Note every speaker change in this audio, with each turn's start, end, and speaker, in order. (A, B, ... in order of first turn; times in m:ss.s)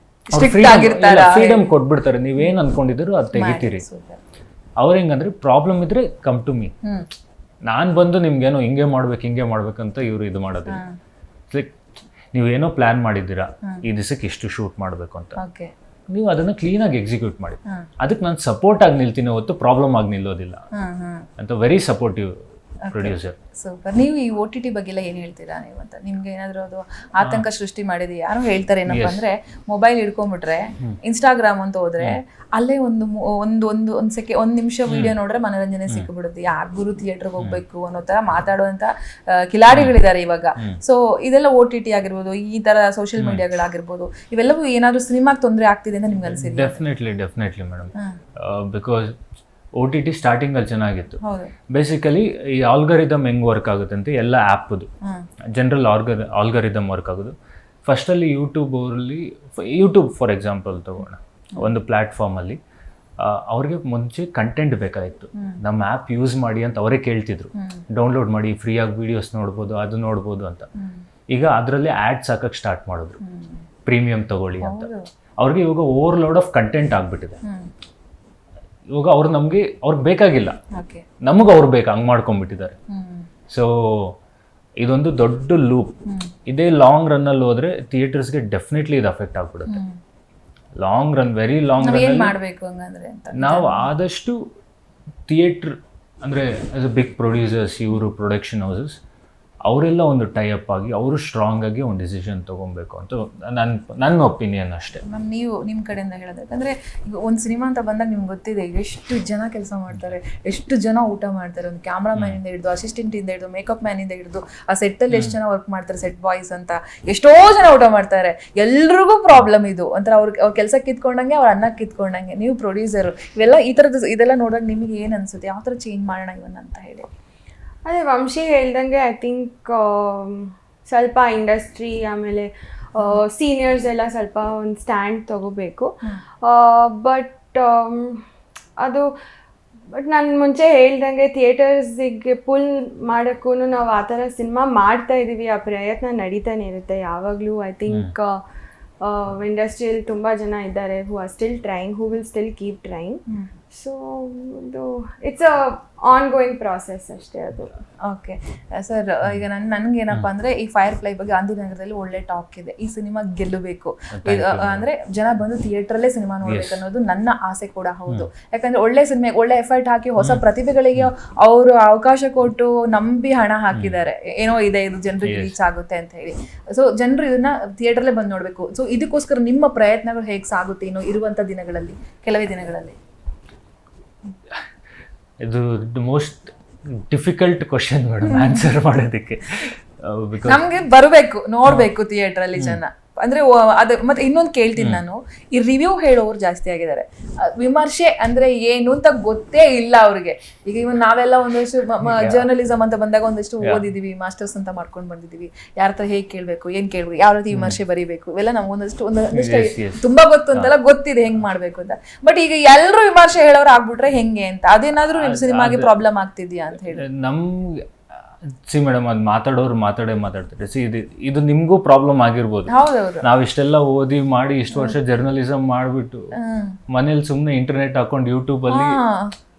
0:00.3-0:03.8 A
0:00.3-0:01.7 B
0:03.3-0:04.2 B
0:04.8-0:06.7 A
0:07.6-0:10.8 A
0:10.7-0:11.0 B
0:11.5-0:11.8 A
0:12.3-0:15.4 A
0:15.4-0:15.7 B
0:16.1-0:20.6 A
0:20.7-0:21.3 B
0:21.4-0:22.3 A
0:22.8-0:46.8 B
0:22.9-0:23.4 A
0:27.2-0:27.4 A
0:28.9-0:29.2 A
0:34.9-0:35.1 A
0:39.7-0:40.0 A
0:43.2-0:43.4 A
0:46.3-0:49.2 A
0:49.8-0:54.9 A
0:51.2-0:51.5 B
0:55.5-1:02.6 A
1:03.2-1:10.7 A
1:07.6-1:07.8 B
1:10.8-1:11.0 B
1:11.3-1:13.2 A
1:13.2-1:13.6 B
1:13.9-1:17.4 A
1:14.6-1:15.1 B
1:17.4-1:17.7 B
1:18.9-1:20.6 A
1:20.8-1:21.1 B
1:21.2-1:22.8 A
1:22.9-1:23.3 B
1:23.5-1:24.2 A
1:24.8-1:25.9 A
1:26.1-1:26.3 B
1:26.4-1:29.8 A
1:29.7-1:30.0 B
1:30.8-1:32.3 A
1:31.8-1:33.9 B
1:33.3-1:34.4 A
1:35.3-1:39.0 A
1:39.6-1:45.0 A
1:45.0-2:07.1 B
1:52.2-1:52.4 A
2:07.8-2:18.2 C
2:18.8-2:19.1 C
2:19.9-2:28.4 C
2:27.9-2:28.1 A
2:29.0-2:37.7 C
2:38.0-3:03.0 B
2:44.1-2:44.9 A
2:46.4-2:46.8 A
2:55.2-2:55.6 A
3:05.4-3:10.6 A
3:08.2-3:08.7 B
3:10.4-3:37.0 B
3:14.8-3:15.0 A
3:22.0-3:22.4 A
3:27.5-3:27.8 A
3:29.3-3:30.7 A
3:35.1-3:35.9 A
3:36.9-3:42.7 A
3:42.7-3:43.3 B
3:43.2-3:46.3 A
3:44.7-3:45.0 B
3:46.3-3:46.8 B
3:46.9-3:49.0 A
3:48.7-3:49.3 B